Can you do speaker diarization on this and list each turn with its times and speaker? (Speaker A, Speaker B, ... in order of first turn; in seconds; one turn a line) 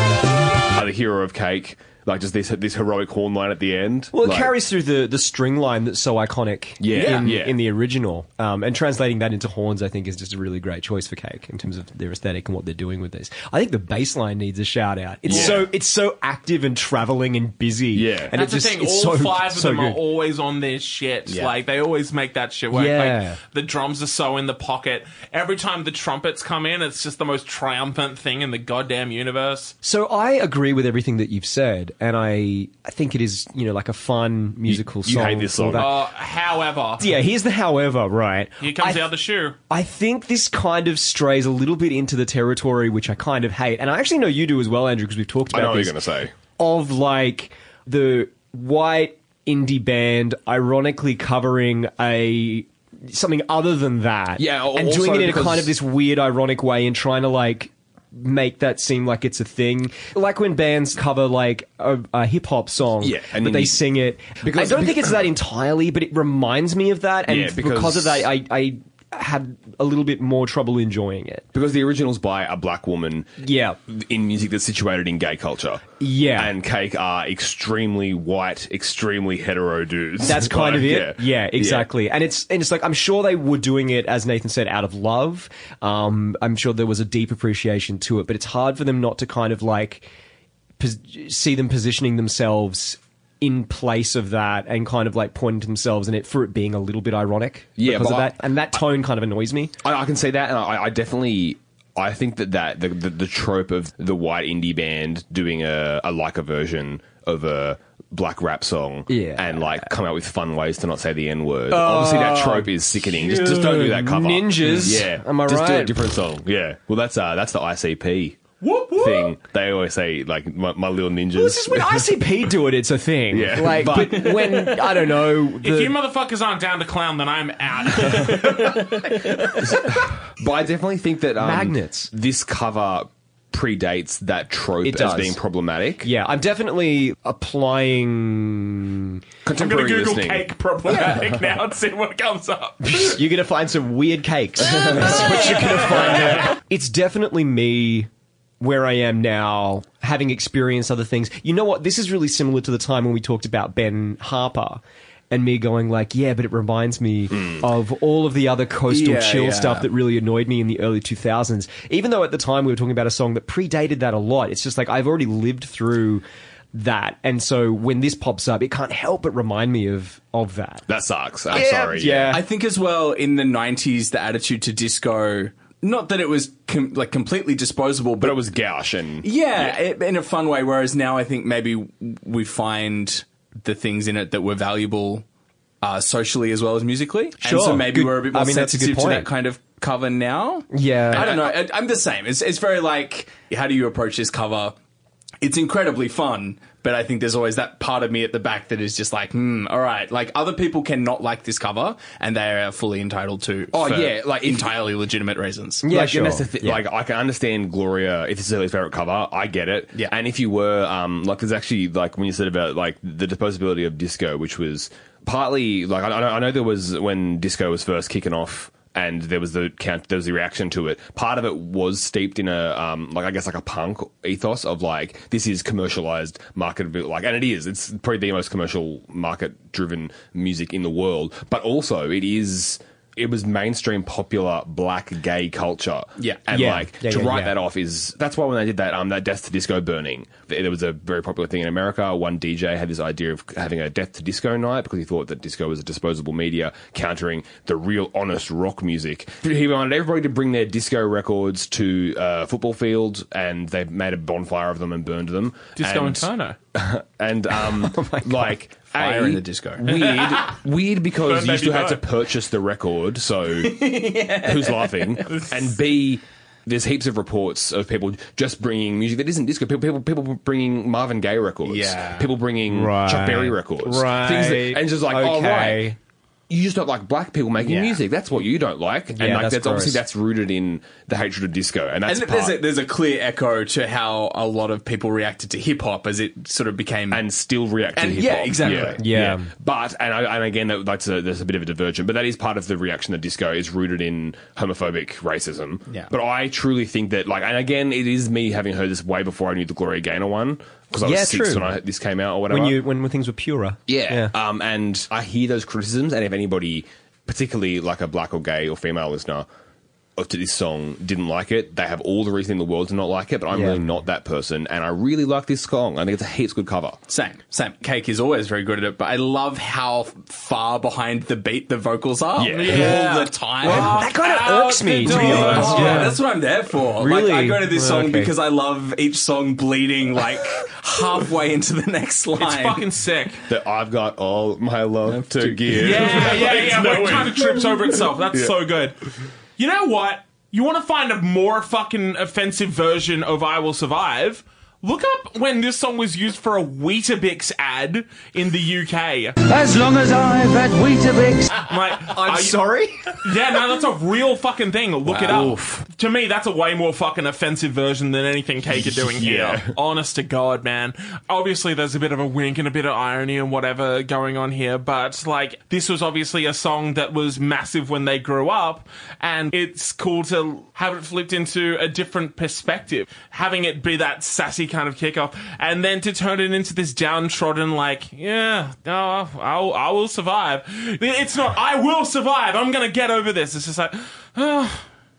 Speaker A: 0.7-4.5
Speaker B: 4.1-20.0
Speaker A: 6.8-7.5
Speaker C: 6.9-7.3
Speaker A: 15.3-15.7
Speaker C: 15.3-15.6
Speaker A: 17.9-18.3
Speaker D: 18.3-29.7
Speaker C: 21.3-21.5
Speaker B: 22.7-23.4
Speaker B: 29.8-35.9
Speaker A: 34.7-36.0
Speaker D: 35.8-37.1
Speaker B: 37.0-39.0
Speaker D: 38.6-39.6
Speaker B: 39.7-45.9
Speaker A: 45.5-46.3
Speaker B: 46.6-71.5
Speaker A: 54.4-55.7
Speaker A: 63.0-63.8
Speaker A: 64.4-65.2
Speaker A: 67.3-68.3
Speaker A: 71.5-81.9
Speaker B: 73.4-73.8
Speaker B: 76.0-76.5
Speaker B: 80.2-90.1
Speaker B: 90.8-99.7
Speaker A: 97.8-98.4
Speaker A: 99.8-118.4
Speaker B: 109.1-109.9
Speaker B: 111.7-116.0
Speaker D: 118.6-119.3
Speaker A: 119.0-122.1
Speaker B: 121.4-126.0
Speaker A: 123.3-124.5
Speaker D: 125.6-129.5
Speaker A: 129.6-136.1
Speaker B: 131.4-132.1
Speaker B: 134.8-135.4
Speaker B: 136.0-139.2
Speaker A: 139.4-140.5
Speaker D: 139.6-143.2
Speaker B: 142.8-170.8
Speaker A: 144.7-146.5
Speaker D: 144.7-145.8
Speaker A: 157.4-157.6
Speaker C: 158.9-159.9
Speaker A: 170.9-172.4
Speaker C: 171.5-178.5
Speaker B: 171.5-172.4
Speaker A: 178.2-179.8
Speaker C: 179.2-185.2
Speaker C: 185.8-194.8
Speaker B: 187.4-189.3
Speaker B: 190.7-191.3
Speaker A: 191.2-191.6
Speaker C: 195.4-205.8
Speaker A: 203.7-204.8
Speaker B: 205.8-206.8
Speaker A: 205.9-263.9
Speaker B: 236.5-237.5
Speaker D: 255.8-256.6
Speaker B: 257.8-258.5
Speaker C: 258.9-260.1
Speaker D: 260.1-260.6
Speaker D: 261.2-262.0
Speaker C: 263.6-265.4
Speaker A: 264.4-275.9
Speaker C: 271.6-272.3
Speaker B: 272.7-276.0
Speaker A: 276.5-282.6
Speaker B: 277.6-277.9
Speaker B: 279.1-280.0
Speaker C: 282.1-287.2
Speaker A: 287.1-302.8
Speaker C: 288.0-289.0
Speaker B: 288.6-289.5
Speaker B: 301.0-301.8
Speaker B: 302.5-304.3
Speaker A: 303.9-309.5
Speaker A: 310.2-317.0
Speaker B: 313.5-313.8
Speaker C: 317.1-324.1
Speaker A: 322.4-323.9
Speaker D: 322.6-326.1
Speaker B: 323.6-326.2
Speaker C: 325.0-332.9
Speaker A: 325.3-326.0
Speaker B: 327.0-328.3
Speaker D: 332.4-333.4
Speaker A: 333.5-338.5
Speaker C: 335.1-337.2
Speaker D: 335.8-339.0
Speaker D: 339.6-349.4
Speaker E: 349.4-351.6
Speaker D: 351.7-352.6
Speaker B: 352.1-353.0
Speaker D: 353.2-384.9
Speaker C: 355.2-355.5
Speaker A: 355.2-355.5
Speaker B: 355.3-355.6
Speaker A: 359.0-359.7